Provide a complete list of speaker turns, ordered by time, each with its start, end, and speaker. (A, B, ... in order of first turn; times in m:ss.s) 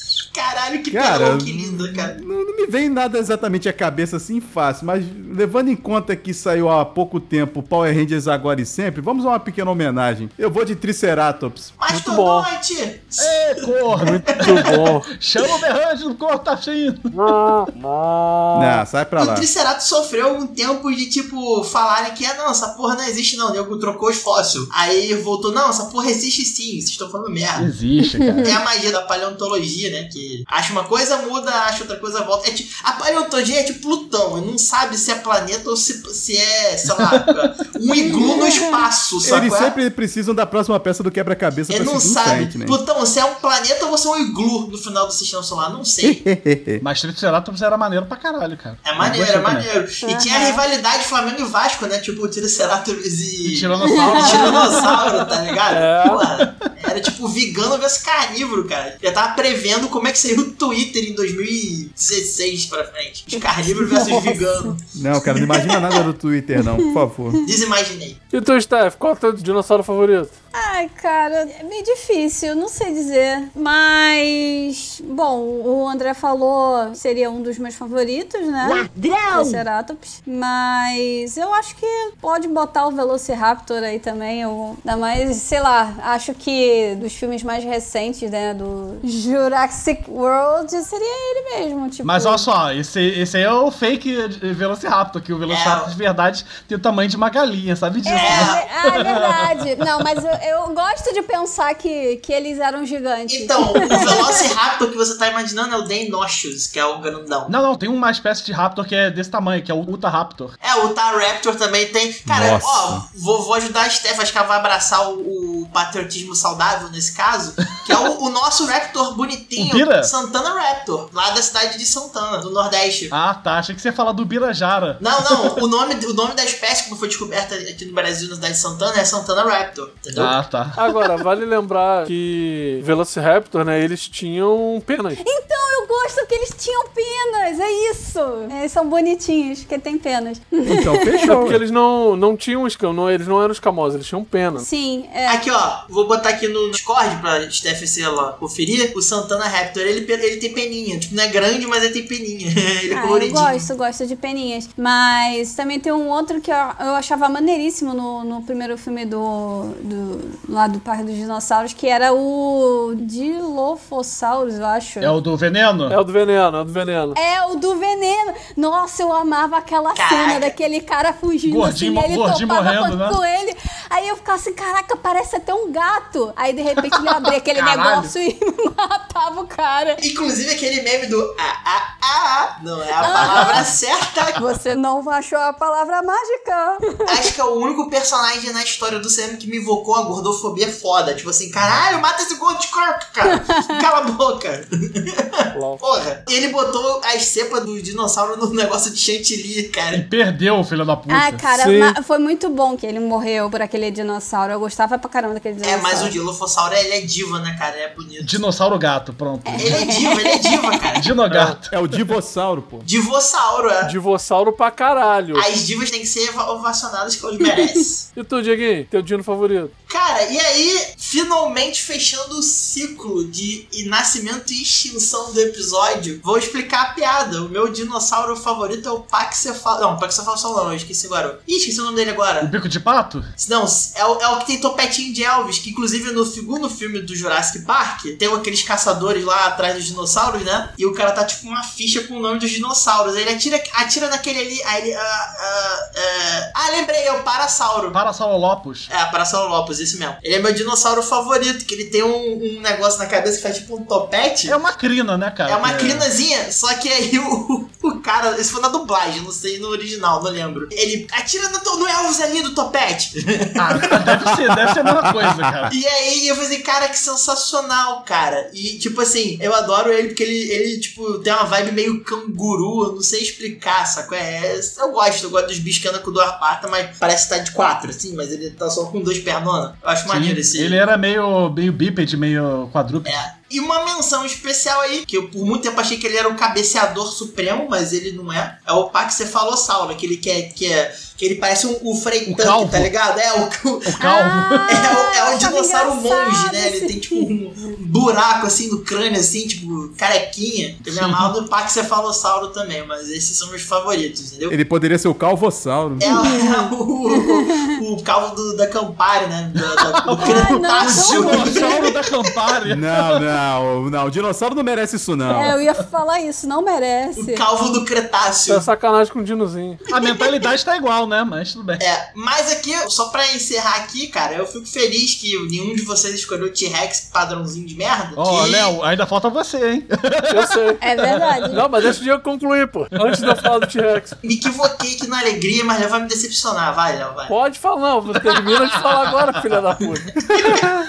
0:00.3-0:02.2 A
0:00.9-0:11.8 B
0:11.8-0:14.0 A
0:11.9-0:12.5 C
0:13.2-0:17.6 D
0:14.0-0:15.1 C
0:17.1-0:18.8 C
0:18.5-0:19.5 B
0:19.2-0:27.7 A
0:27.6-0:28.6 D
0:28.0-0:28.6 E
0:28.4-0:39.7 A
0:37.0-0:37.2 D
0:37.9-0:38.8 E
0:39.2-0:42.8 B
0:41.7-0:46.2 A
0:46.0-0:46.8 B
0:46.8-0:49.7 D
0:48.8-1:06.0 A
0:50.0-0:50.6 E
0:53.4-0:55.2 D
0:53.8-0:54.6 E
0:55.7-0:56.2 C
1:03.9-1:04.4 C
1:05.0-1:07.4 B
1:06.8-1:07.4 E
1:07.4-1:08.2 A
1:08.3-1:10.4 C
1:10.5-1:32.5 E
1:18.7-1:19.6 D
1:32.0-1:40.0 D
1:35.5-1:35.9 A
1:38.1-1:44.5 E
1:38.2-1:38.6 A
1:43.3-1:47.5 A
1:47.5-1:50.6 D
1:50.6-2:03.1 A
1:52.3-1:53.0 B
1:57.6-1:57.9 D
1:59.6-2:00.1 D
2:03.1-2:05.6 D
2:05.0-2:10.4 A
2:10.2-2:10.9 D
2:10.8-2:15.2 C
2:15.2-2:21.4 E
2:20.6-2:21.6 B
2:21.3-2:24.6 C
2:24.6-2:25.4 E
2:25.3-2:33.7 A
2:32.9-2:45.2 E
2:45.0-2:46.0 D
2:45.9-2:47.2 C
2:47.2-3:00.0 E
2:50.0-2:50.5 A
2:51.4-2:53.2 D
2:57.5-2:58.2 D
3:00.0-3:04.4 A
3:03.0-3:03.7 E
3:04.4-3:07.3 E
3:07.1-3:20.0 A
3:13.3-3:13.8 E
3:15.5-3:15.8 C
3:19.9-3:21.4 D
3:21.1-3:26.1 E
3:21.5-3:22.0 C
3:25.6-3:28.4 A
3:28.2-3:29.9 D
3:29.5-3:30.8 E
3:29.6-3:31.1 A
3:31.0-3:31.8 D
3:31.3-3:31.6 C
3:31.7-3:32.9 B
3:32.8-3:33.9 A
3:33.8-3:35.5 C
3:35.4-3:38.1 A
3:38.2-3:39.7 C
3:39.9-3:52.5 A
3:52.4-3:53.3 D
3:53.4-4:08.0 A
4:07.9-4:08.9 D
4:08.9-4:14.6 A
4:14.5-4:16.1 D
4:15.5-4:24.0 A
4:23.6-4:25.7 D
4:24.0-4:25.7 B
4:25.7-4:40.8 A
4:40.1-4:43.2 D
4:43.0-4:54.0 A
4:52.3-4:52.9 D
4:53.9-4:54.8 D
4:54.0-4:57.3 E
4:54.7-5:04.6 A
5:00.8-5:01.3 D
5:04.5-5:06.1 B
5:06.0-5:12.0 A
5:06.0-5:07.7 E
5:09.8-5:13.0 D
5:10.2-5:12.0 E
5:12.6-5:15.6 B
5:15.3-5:17.4 E
5:17.2-5:18.6 A
5:18.5-5:19.8 C
5:19.9-5:21.8 D
5:20.0-5:20.3 A
5:21.8-5:28.8 A
5:28.2-5:30.5 D
5:30.3-5:30.8 C
5:30.8-5:31.7 E
5:31.5-5:34.2 C
5:33.0-5:33.4 D
5:34.2-5:37.3 A
5:37.3-5:40.2 C
5:38.5-5:38.9 D
5:40.3-5:40.7 A